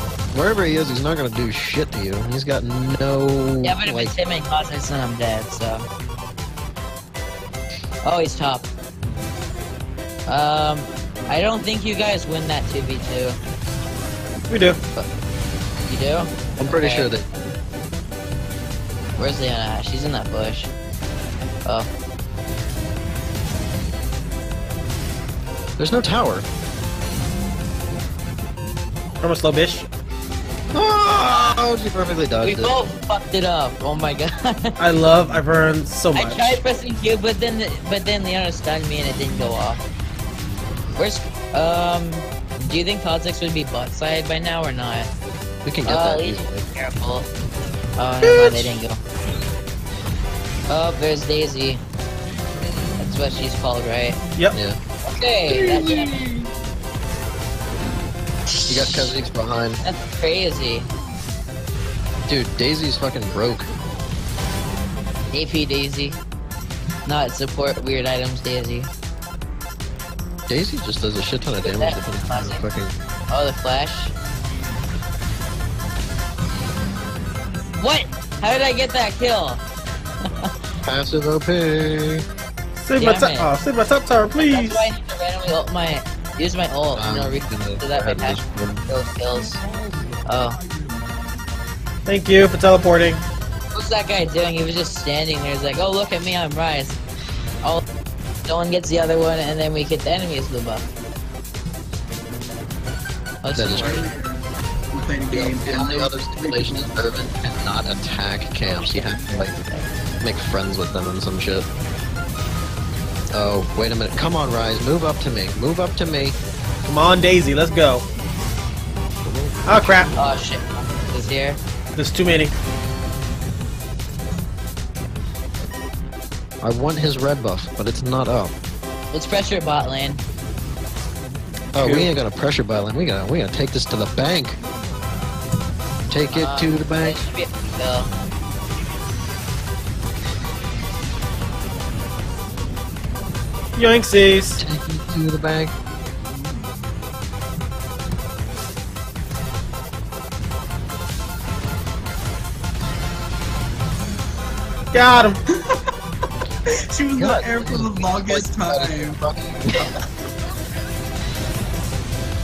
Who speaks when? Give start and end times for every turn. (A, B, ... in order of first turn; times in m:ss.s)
0:00.3-0:04.1 A
0:03.6-0:05.9 B
0:08.0-0:08.7 B
0:10.3-0:13.4 B
0:14.5-0:14.8 C
0:15.9-0:17.1 B
0:16.6-0:17.2 A
0:19.2-0:20.7 B
0:25.8-0:26.4 A
0:29.2-0:29.9 C
0:30.7-0:32.7 A
0:32.4-0:34.7 B
0:34.8-0:36.6 C
0:36.1-0:39.8 B
0:41.0-0:45.1 B
0:45.6-0:46.6 A
0:45.8-0:47.3 B
0:48.0-0:49.0 B
0:48.2-0:48.7 C
0:50.7-0:51.8 B
0:53.0-0:54.2 B
0:54.5-0:54.8 A
0:55.0-0:56.2 B
0:58.5-0:59.1 B
0:58.7-0:59.8 A
0:59.8-1:00.9 B
1:02.3-1:03.7 A
1:05.3-1:06.2 B
1:07.0-1:08.9 B
1:10.5-1:13.0 A
1:11.6-1:12.6 B
1:13.3-1:14.1 B
1:17.8-1:19.6 B
1:20.8-1:22.2 A
1:22.8-1:24.9 C
1:23.0-1:23.5 B
1:24.4-1:29.6 B
1:26.9-1:28.8 A
1:30.2-1:30.6 B
1:32.1-1:33.2 C
1:33.7-1:37.0 B
1:38.5-1:40.9 B
1:43.4-1:44.1 B
1:43.6-1:44.0 A
1:43.6-1:46.9 D
1:45.3-1:49.6 A
1:48.7-1:49.9 B
1:50.2-1:51.6 A
1:53.3-1:56.4 A
1:56.9-1:58.1 C
1:59.2-2:00.1 A
1:59.6-2:00.1 C
2:00.2-2:01.6 B
2:02.0-2:02.5 C
2:06.6-2:08.5 A
2:09.1-2:10.2 B
2:11.7-2:14.6 A
2:11.8-2:12.1 C
2:16.1-2:17.2 A
2:16.3-2:18.1 B
2:23.8-2:24.6 C
2:24.6-2:25.7 A
2:34.9-2:35.4 C
2:36.7-2:39.2 D
2:37.2-2:39.9 A